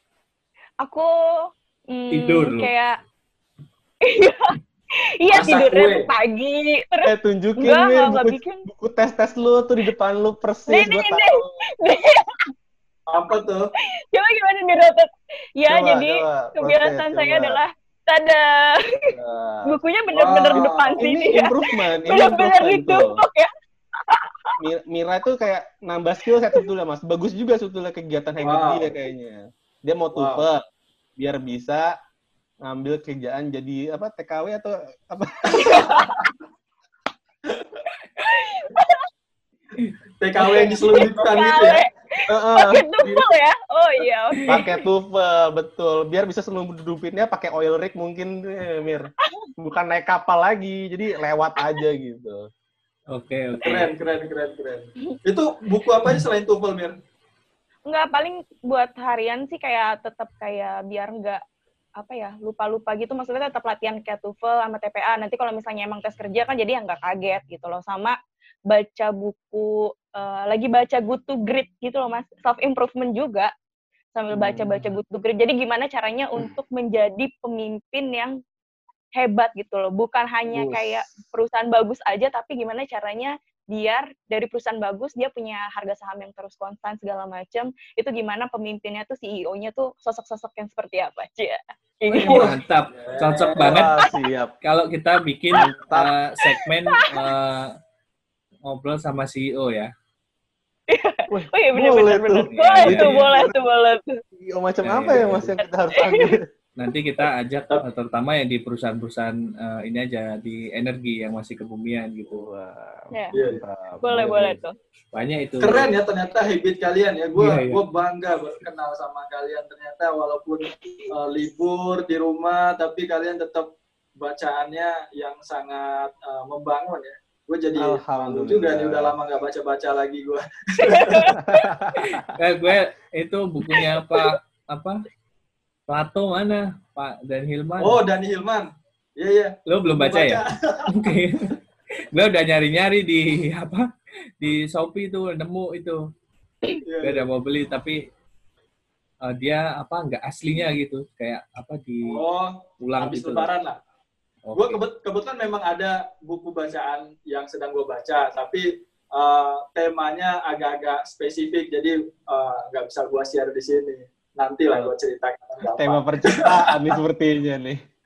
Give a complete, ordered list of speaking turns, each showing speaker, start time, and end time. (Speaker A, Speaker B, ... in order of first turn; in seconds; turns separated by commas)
Speaker A: 0.8-3.0, Speaker B: 2.1-2.7, Speaker A: 4.0-8.7, Speaker C: 5.3-6.1, Speaker D: 7.0-11.6, Speaker A: 10.7-12.5, Speaker C: 13.1-13.7, Speaker A: 14.1-19.1, Speaker D: 15.7-17.6, Speaker D: 19.1-19.8, Speaker A: 19.6-23.5, Speaker C: 20.1-21.1, Speaker D: 21.0-23.2, Speaker A: 24.1-24.6, Speaker D: 24.6-30.6, Speaker C: 28.4-28.9, Speaker C: 30.1-30.4, Speaker D: 31.2-31.9, Speaker D: 32.6-36.0, Speaker A: 35.5-36.3, Speaker C: 35.6-36.1, Speaker A: 38.2-39.0, Speaker C: 40.2-41.8, Speaker A: 40.4-44.8, Speaker D: 42.3-43.3, Speaker D: 44.5-52.4, Speaker B: 53.1-53.9, Speaker C: 53.6-57.0, Speaker A: 57.9-61.4, Speaker A: 62.0-68.2, Speaker A: 68.7-73.5, Speaker A: 74.2-78.3, Speaker D: 74.3-74.8, Speaker A: 79.2-92.5, Speaker D: 80.5-81.1, Speaker B: 92.1-94.0, Speaker C: 92.2-93.8, Speaker D: 93.5-94.5, Speaker B: 94.6-97.7, Speaker D: 95.5-96.1, Speaker A: 96.9-97.3, Speaker B: 98.7-99.9, Speaker A: 100.9-104.2, Speaker D: 101.3-103.5, Speaker B: 102.5-103.3, Speaker D: 104.4-106.4, Speaker B: 104.8-105.6, Speaker A: 105.6-106.3, Speaker B: 106.8-112.5, Speaker D: 112.3-114.6, Speaker C: 113.3-113.6, Speaker A: 114.0-114.7, Speaker B: 115.1-115.9, Speaker C: 115.6-131.4, Speaker B: 117.4-117.8, Speaker D: 127.8-129.1, Speaker A: 130.8-131.6, Speaker D: 131.4-132.3, Speaker B: 132.2-135.1, Speaker A: 133.7-134.2, Speaker B: 135.9-138.0, Speaker C: 137.8-141.2, Speaker B: 139.7-141.6, Speaker B: 142.1-143.9, Speaker B: 144.4-146.0, Speaker C: 146.8-147.3, Speaker B: 147.0-148.0, Speaker B: 149.2-152.2, Speaker C: 152.0-153.8, Speaker B: 152.8-153.5, Speaker B: 154.5-154.8, Speaker C: 154.6-167.0, Speaker D: 165.8-167.8